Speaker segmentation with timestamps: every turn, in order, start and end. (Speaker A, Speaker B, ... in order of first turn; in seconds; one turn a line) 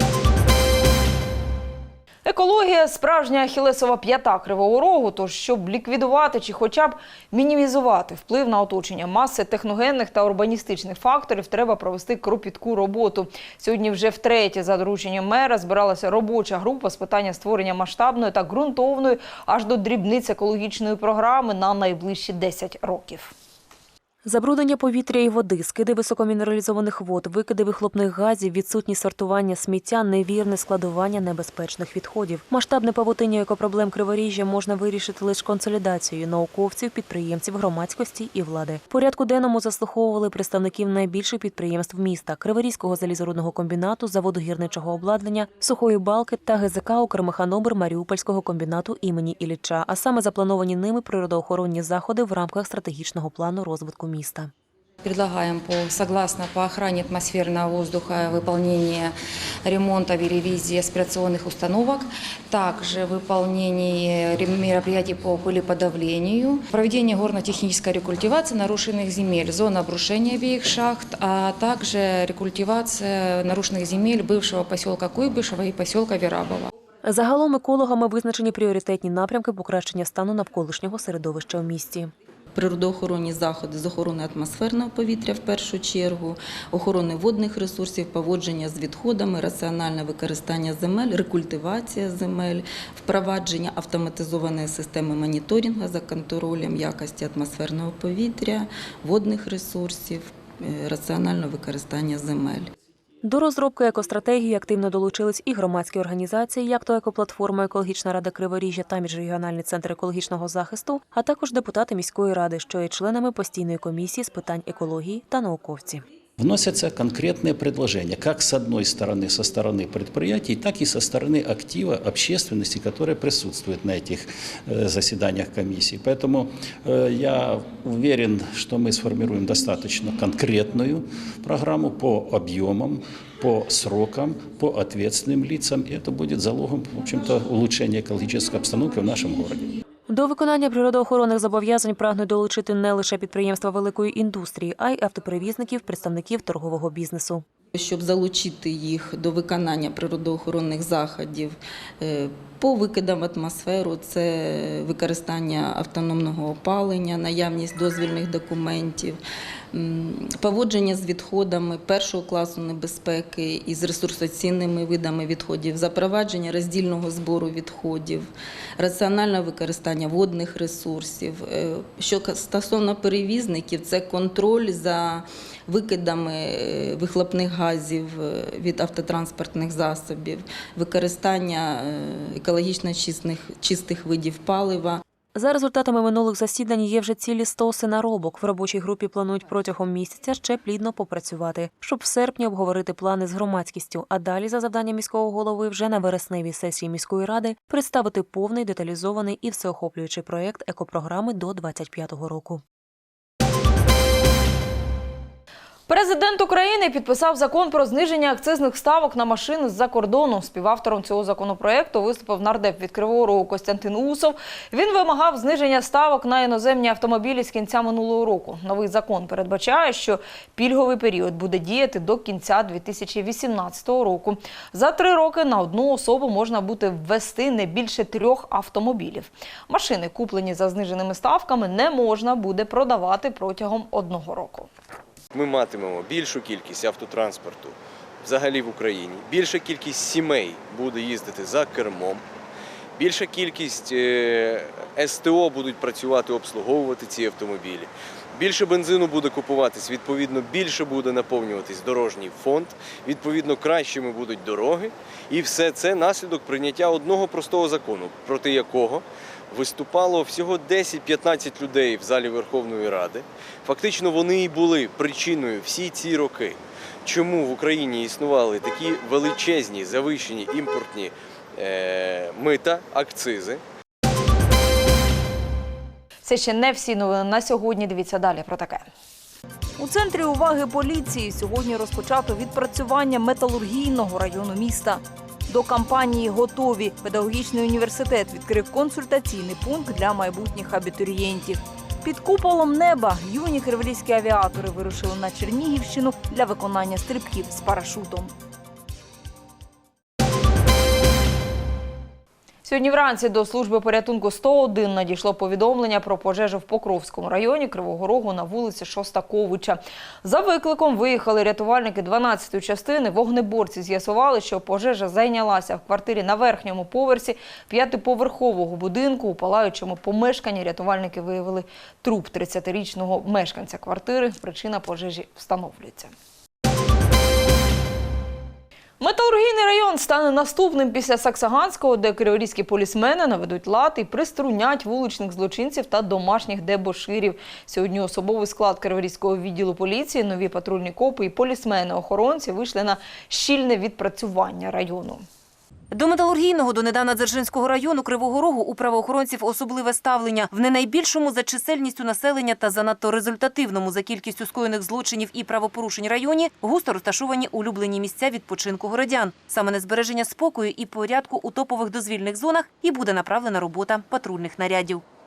Speaker A: 2.2-23.3
Speaker B: 24.2-54.5
Speaker C: 55.0-76.7
Speaker B: 77.0-82.1
Speaker D: 82.5-102.7
Speaker B: 103.2-116.0
Speaker E: 116.4-139.7
Speaker B: 140.1-147.4
Speaker D: 147.7-159.2
Speaker D: 159.7-185.0
Speaker B: 185.3-202.6
Speaker A: 205.9-234.7
Speaker F: 235.3-242.2
Speaker F: 243.0-273.6
Speaker A: 276.2-278.9
Speaker A: 279.8-285.0
Speaker A: 285.5-291.5
Speaker A: 292.1-294.8
Speaker A: 295.9-296.4
Speaker A: 302.6-326.1
Speaker A: 329.0-345.2
Speaker G: 345.9-365.0